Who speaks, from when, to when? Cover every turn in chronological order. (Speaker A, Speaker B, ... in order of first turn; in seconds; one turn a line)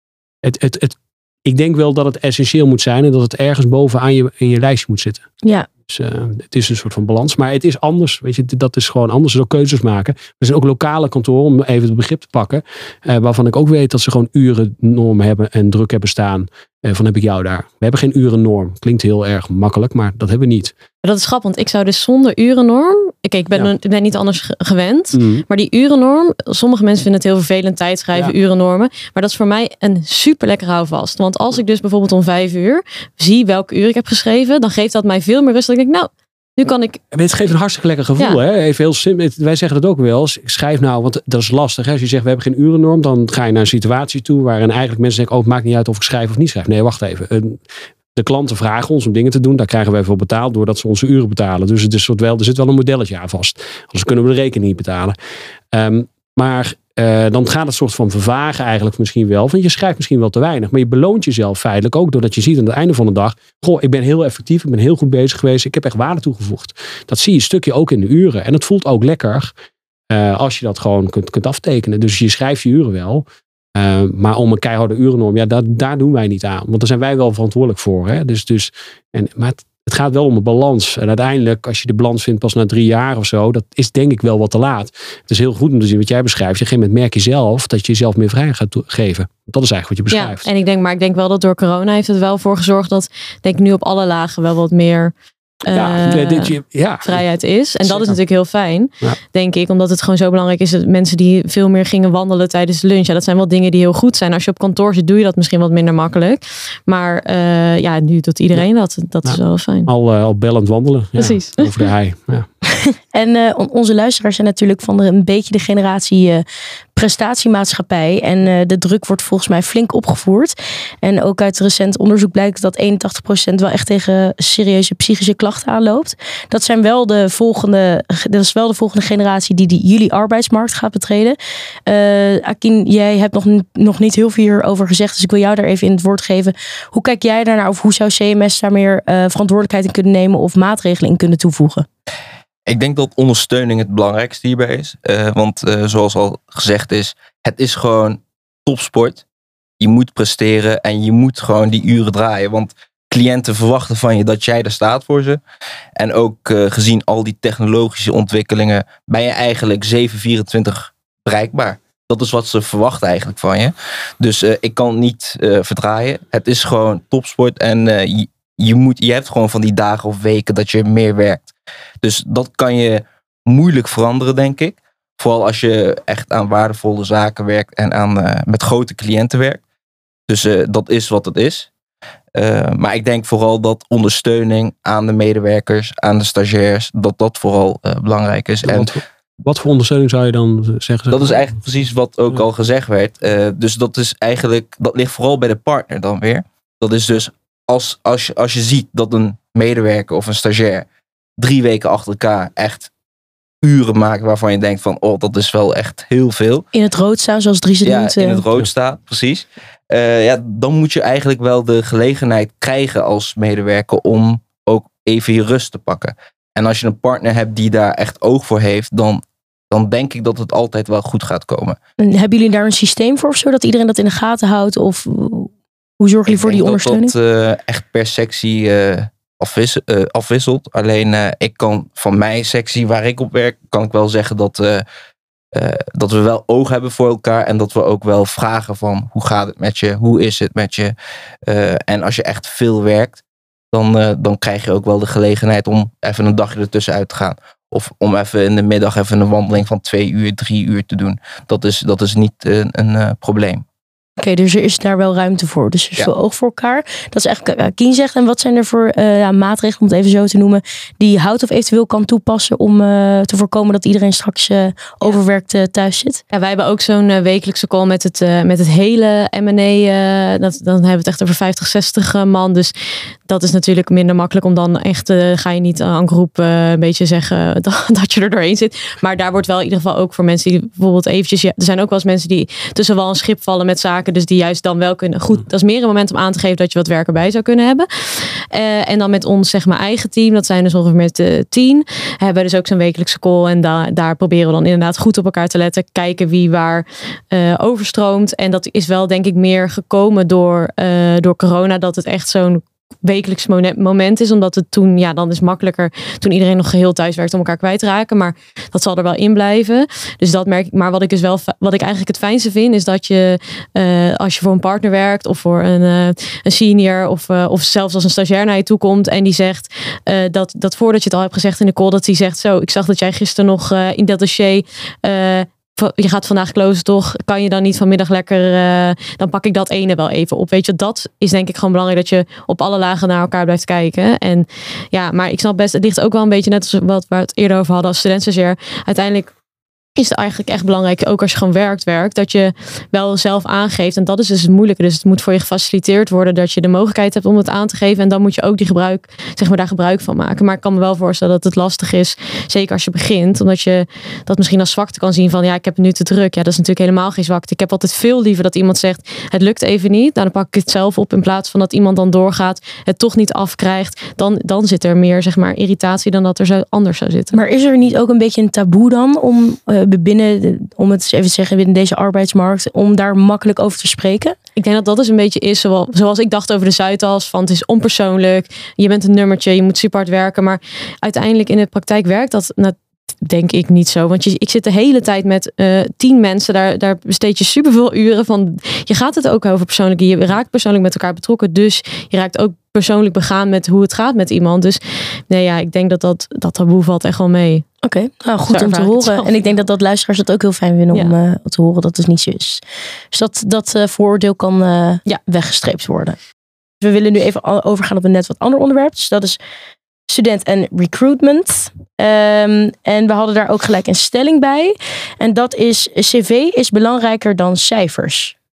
Speaker A: 0.4-5.2
Speaker A: 5.9-20.7
Speaker B: 21.0-37.0
Speaker A: 25.1-25.4
Speaker A: 37.1-47.6
Speaker A: 48.2-55.1
Speaker A: 55.7-69.5
Speaker A: 70.1-90.5
Speaker B: 90.1-95.1
Speaker B: 95.6-109.9
Speaker A: 95.7-97.2
Speaker A: 97.8-98.2
Speaker A: 109.2-112.5
Speaker B: 111.2-111.9
Speaker C: 113.1-116.4
Speaker C: 117.0-141.9
Speaker D: 142.7-149.2
Speaker D: 149.8-155.4
Speaker D: 156.0-171.5
Speaker D: 172.0-179.6
Speaker D: 180.3-181.7
Speaker D: 182.3-188.9
Speaker A: 188.6-191.4
Speaker D: 191.1-200.9
Speaker D: 201.4-202.9
Speaker D: 203.6-206.7
Speaker C: 206.7-208.4
Speaker D: 207.8-221.8
Speaker C: 222.0-227.1
Speaker D: 226.3-234.8
Speaker D: 235.5-240.9
Speaker D: 241.5-243.2
Speaker D: 243.7-253.6
Speaker C: 254.2-266.2
Speaker B: 266.3-272.7
Speaker B: 273.3-339.3
Speaker B: 340.0-367.4
Speaker C: 367.3-374.4
Speaker B: 374.6-397.7
Speaker C: 397.8-406.2
Speaker B: 398.5-399.3
Speaker C: 406.8-409.4
Speaker C: 410.1-418.4